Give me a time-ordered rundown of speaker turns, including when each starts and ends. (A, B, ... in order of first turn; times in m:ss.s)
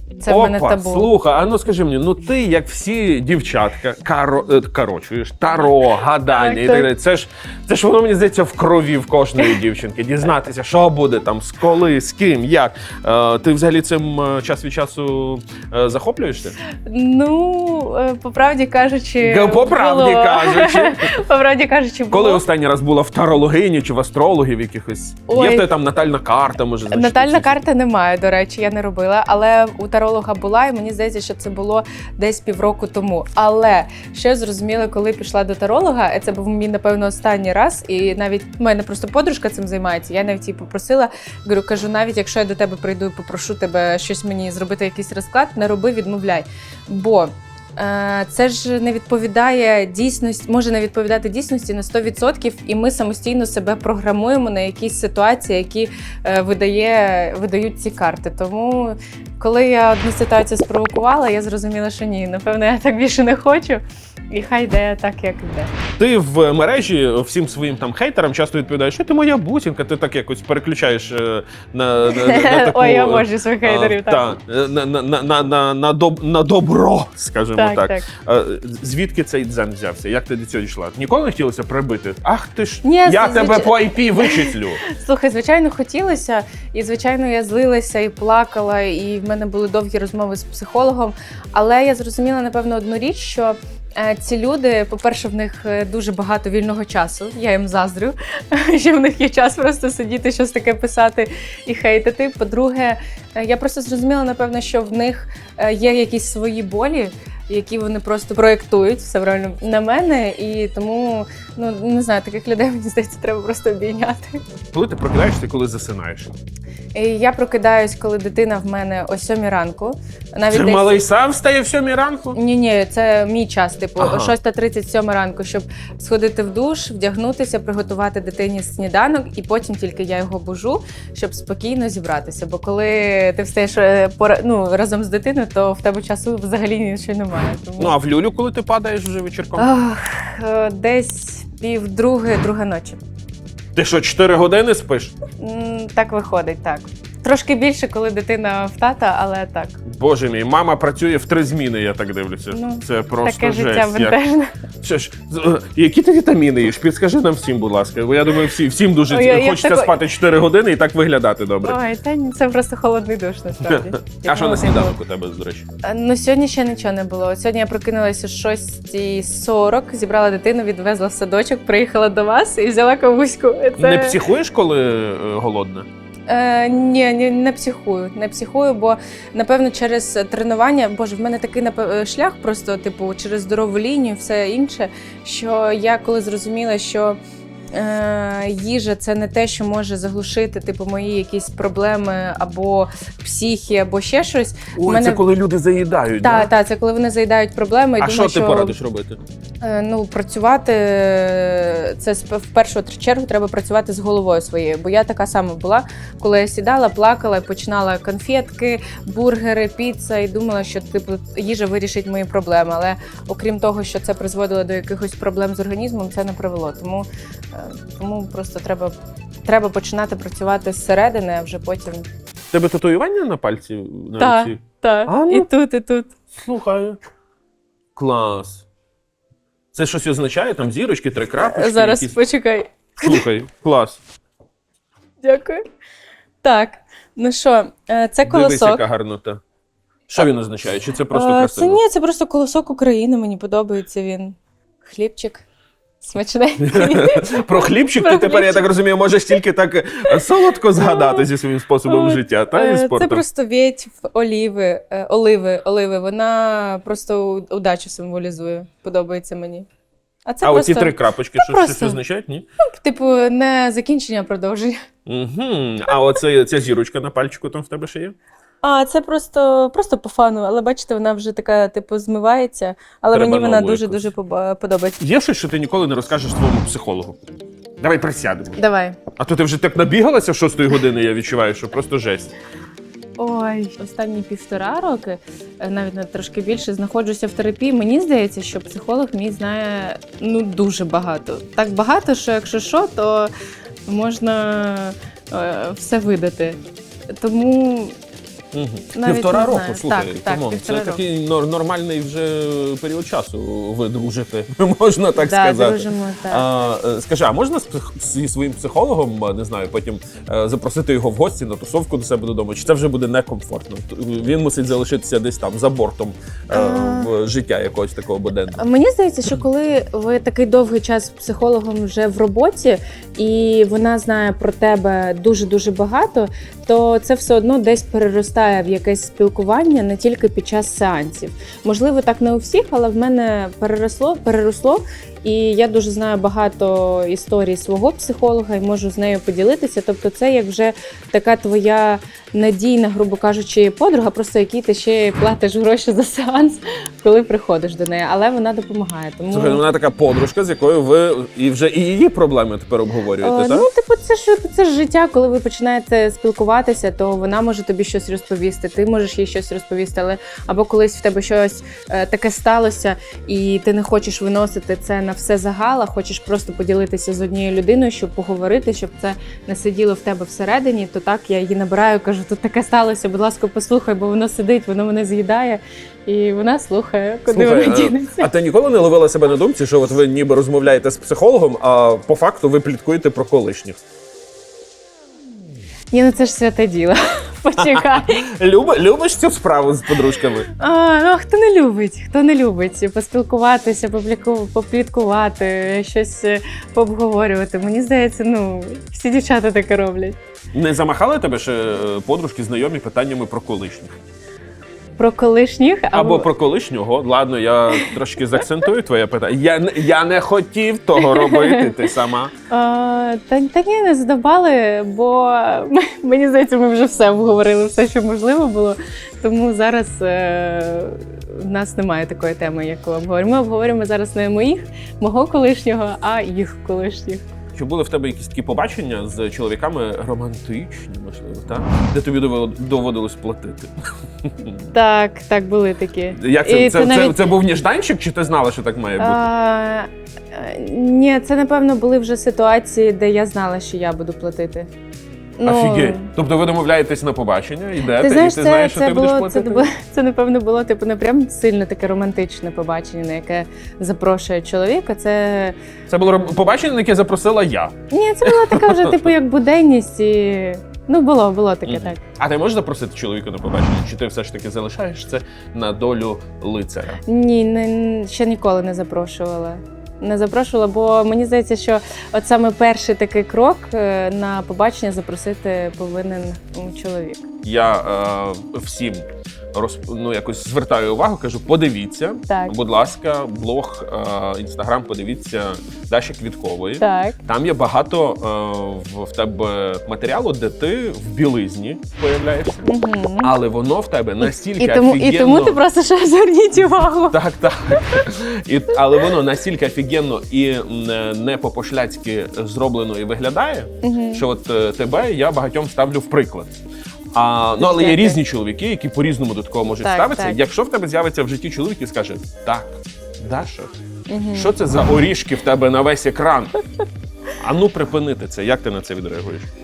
0:00.2-0:01.1 A
0:00.3-0:16.6 B
0:06.3-0:06.9 A
0:16.7-0:22.4 A
0:19.2-0:21.2 B
0:22.1-0:27.6 B
0:25.3-0:25.7 A
0:26.9-1:05.7 A
1:06.0-1:24.8 B
1:12.1-1:14.3 A
1:17.6-1:18.1 A
1:22.8-1:54.4 A
1:54.7-1:56.3 B
1:56.9-2:01.0 A
2:00.5-2:02.4 B
2:02.3-2:17.9 A
2:04.0-2:04.3 B
2:17.8-2:19.7 B
2:19.6-2:23.0 A
2:23.8-2:25.1 B
2:25.4-2:29.8 A
2:29.8-2:34.2 B
2:32.5-2:34.5 A
2:34.8-2:41.8 B
2:39.1-2:40.0 A
2:41.6-2:45.0 A
2:43.6-2:45.7 B
2:45.8-2:54.2 A
2:53.8-2:55.9 B
2:56.3-3:07.2 A
3:07.7-3:15.2 A
3:14.8-3:16.5 B
3:16.2-3:18.8 A
3:18.0-3:19.2 B
3:19.6-3:39.0 A
3:39.5-3:42.1 A
3:42.5-3:45.5 B
3:44.2-3:46.1 A
3:46.4-3:47.0 B
3:48.0-3:48.7 B
3:49.7-3:52.2 B
3:51.4-3:53.2 A
3:53.0-3:54.0 B
3:55.2-3:55.6 A
3:56.4-3:58.8 A
3:58.3-3:59.4 B
4:00.1-4:01.8 B
4:01.1-4:05.4 A
4:06.0-4:08.7 A
4:06.6-4:13.2 B
4:10.1-4:11.3 A
4:11.8-4:19.7 A
4:20.3-4:22.0 A
4:20.4-4:22.5 B
4:22.7-4:24.8 A
4:25.1-4:28.2 B
4:28.6-4:35.0 A
4:33.1-4:34.0 B
4:35.0-4:37.2 B
4:37.8-4:38.6 B
4:38.6-4:39.0 A
4:39.2-4:42.3 B
4:43.2-4:53.3 A
4:53.9-4:56.6 A
4:57.1-4:58.0 A
4:58.5-5:18.6 B
4:58.9-5:01.0 A
5:05.2-5:06.5 A
5:16.5-5:17.1 A
5:18.6-5:49.6 A
5:49.3-5:53.7 B
5:53.2-6:18.3 A
6:17.3-6:23.8 B
6:25.9-6:28.3 A
6:27.6-6:30.5 B
6:30.5-6:40.2 A
6:40.5-6:43.9 B
6:45.0-6:46.3 A
6:45.9-6:52.3 B
6:51.0-6:51.9 A
6:52.5-7:07.3 A
7:07.5-7:14.7 B
7:14.7-7:17.2 A
7:16.1-7:19.3 B
7:19.0-7:24.7 A
7:25.4-7:26.1 A
7:25.4-7:29.7 B
7:28.0-7:35.6 A
7:35.9-7:39.0 B
7:37.9-7:42.0 A
7:41.7-7:47.0 B
7:47.0-7:57.3 A
7:57.4-8:12.6 B
8:02.3-8:02.5 A
8:06.8-8:07.2 A
8:12.6-8:13.3 A
8:13.2-8:15.6 B
8:14.2-8:18.0 A
8:17.1-8:26.6 B
8:23.8-8:24.2 A
8:27.1-8:33.7 B
8:27.6-8:28.2 A
8:29.8-8:30.4 A
8:34.1-8:34.5 A
8:34.3-8:36.6 B
8:37.4-8:39.5 B